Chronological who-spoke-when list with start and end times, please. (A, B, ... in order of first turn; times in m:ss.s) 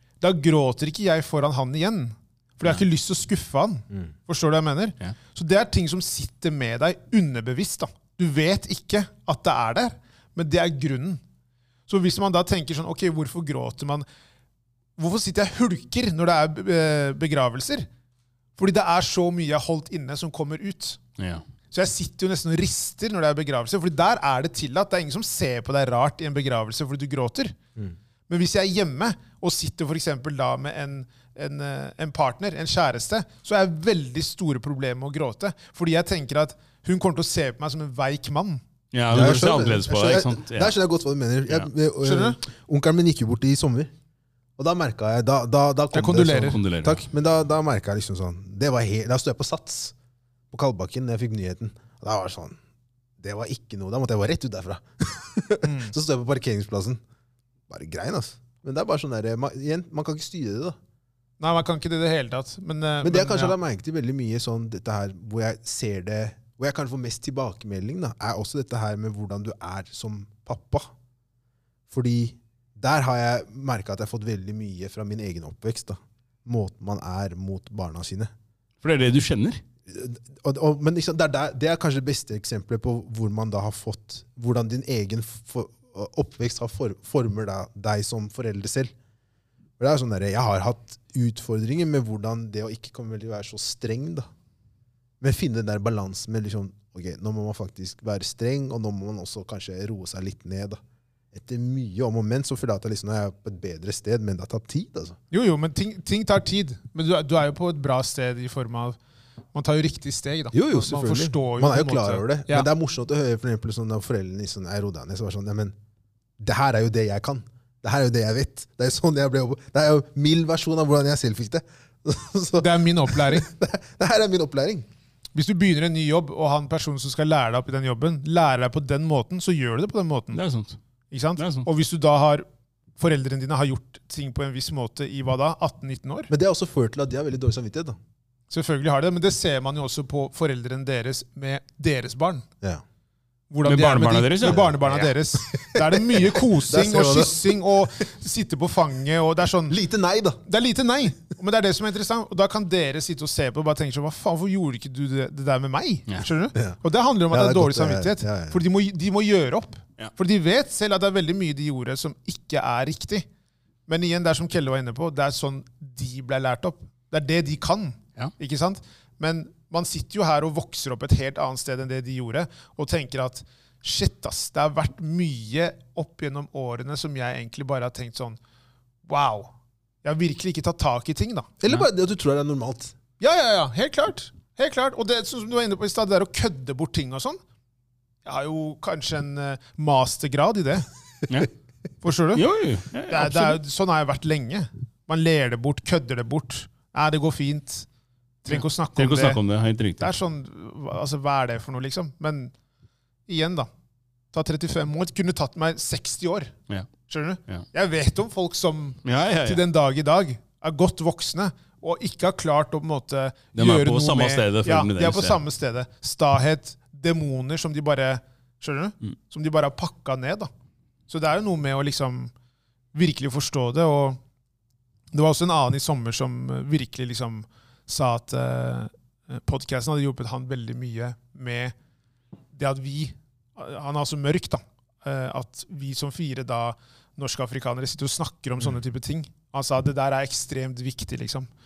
0:00.2-0:11.2 A
0:11.9-0:14.0 A
0:15.0-0:17.9 A
0:18.6-0:21.0 A
0:21.2-0:21.4 B
0:21.7-0:27.6 A
0:28.3-0:38.6 A
0:38.9-0:40.8 B
0:39.1-0:43.9 C
0:42.0-0:42.4 A
0:44.6-0:50.0 C
0:45.9-0:46.6 A
0:46.4-0:47.0 B
0:50.5-0:52.6 C
0:53.2-0:57.0 C
0:55.6-0:55.9 A
0:57.7-1:00.8 C
1:01.4-1:03.6 A
1:03.0-1:10.9 C
1:11.9-1:18.3 C
1:18.8-1:19.6 B
1:19.9-1:28.9 C
1:29.8-1:34.3 C
1:35.2-1:40.8 C
1:41.3-1:45.2 C
1:45.3-1:49.0 A
1:49.5-1:52.7 A
1:50.5-1:55.8 C
1:56.4-2:04.9 C
2:02.6-2:03.5 A
2:05.4-2:10.4 A
2:10.3-2:10.8 B
2:11.1-2:12.4 A
2:11.4-2:11.7 B
2:13.0-2:16.3 A
2:16.3-2:18.0 C
2:18.5-2:22.5 A
2:23.5-2:29.8 A
2:23.6-2:25.0 B
2:24.4-2:27.6 C
2:29.7-2:30.4 C
2:30.4-2:43.3 A
2:37.3-2:38.6 C
2:43.9-2:58.4 A
2:59.1-2:59.5 A
3:00.0-3:01.5 A
3:01.6-3:03.0 C
3:03.2-3:07.4 A
3:08.2-3:10.9 A
3:12.0-3:12.4 A
3:12.3-3:13.6 B
3:13.1-3:17.9 A
3:18.4-3:19.4 A
3:18.5-3:20.1 B
3:20.0-3:22.5 A
3:23.3-3:23.7 A
3:24.3-3:26.5 A
3:27.1-3:40.5 A
3:29.0-3:29.6 B
3:33.6-3:35.4 B
3:41.1-3:42.3 A
3:42.9-3:44.2 A
3:45.1-3:51.7 A
3:52.5-4:01.5 A